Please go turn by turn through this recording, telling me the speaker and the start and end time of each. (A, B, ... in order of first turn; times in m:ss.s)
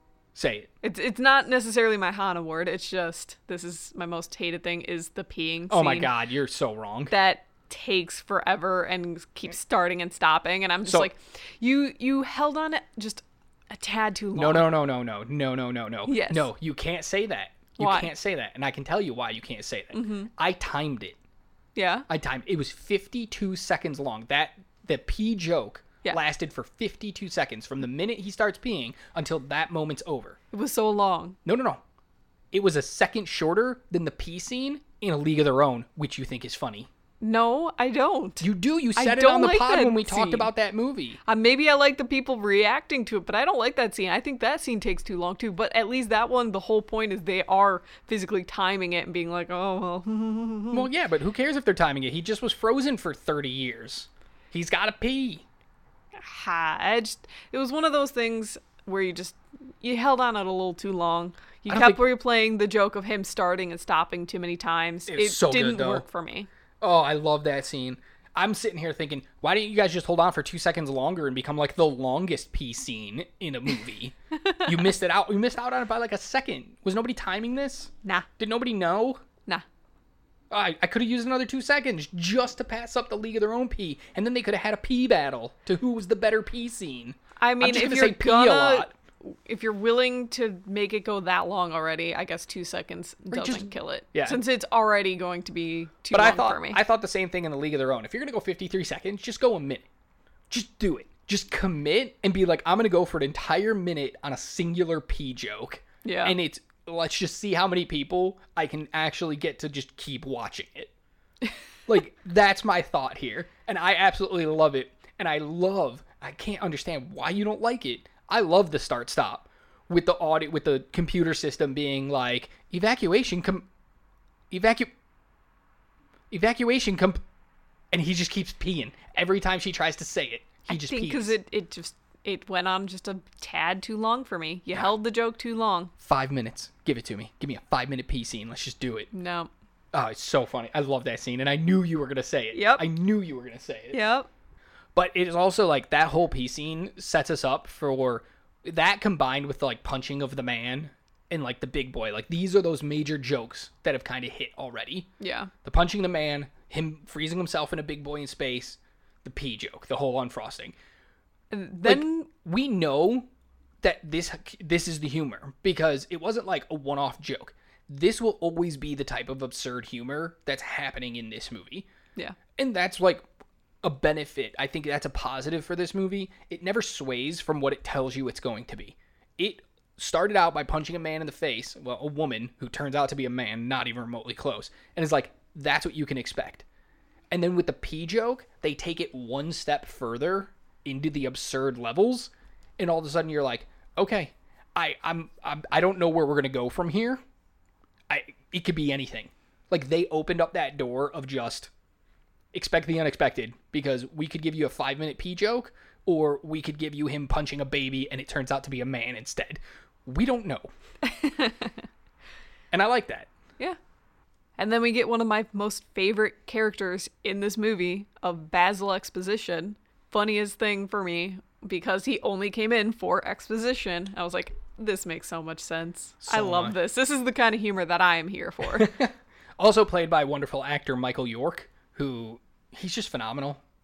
0:00.4-0:00.7 A
0:00.8-0:06.1 B
0:05.7-0:07.1 A
0:07.1-0:14.7 B
0:10.8-0:11.1 A
0:14.4-0:21.2 A
0:16.1-0:16.5 B
0:17.8-0:18.1 B
0:19.9-0:20.3 B
0:21.8-0:22.1 B
0:22.1-0:30.4 A
0:30.5-0:31.4 B
0:31.4-0:31.8 A
0:32.5-0:36.9 A
0:37.2-0:40.5 B
0:38.4-0:41.2 A
0:41.3-0:50.9 B
0:50.7-0:55.5 A
0:56.1-1:06.5 B
1:01.7-1:02.0 A
1:05.1-1:06.0 A
1:06.8-1:19.2 A
1:14.5-1:14.8 B
1:20.5-1:28.9 A
1:27.4-1:36.8 B
1:33.3-1:34.4 A
1:36.1-1:39.9 A
1:40.5-1:50.9 A
1:46.0-1:46.4 B
1:51.9-2:03.7 A
2:04.5-2:04.9 A
2:06.3-2:07.2 A
2:07.9-2:11.4 A
2:10.7-2:15.9 B
2:16.0-2:19.1 A
2:19.1-2:19.5 B
2:19.9-2:24.0 A
2:22.5-2:22.8 B
2:23.9-2:24.3 B
2:25.0-2:35.1 A
2:35.2-2:35.5 B
2:35.6-2:40.8 A
2:41.5-2:42.3 B
2:41.8-2:43.3 A
2:43.8-2:51.9 A
2:52.6-2:53.3 A
2:53.8-3:06.6 A
3:07.3-3:17.2 A
3:18.1-3:21.7 A
3:22.5-3:30.7 A
3:31.0-3:31.9 B
3:32.7-3:33.3 A
3:34.6-3:48.9 B
3:46.2-3:46.8 A
3:48.7-3:53.6 A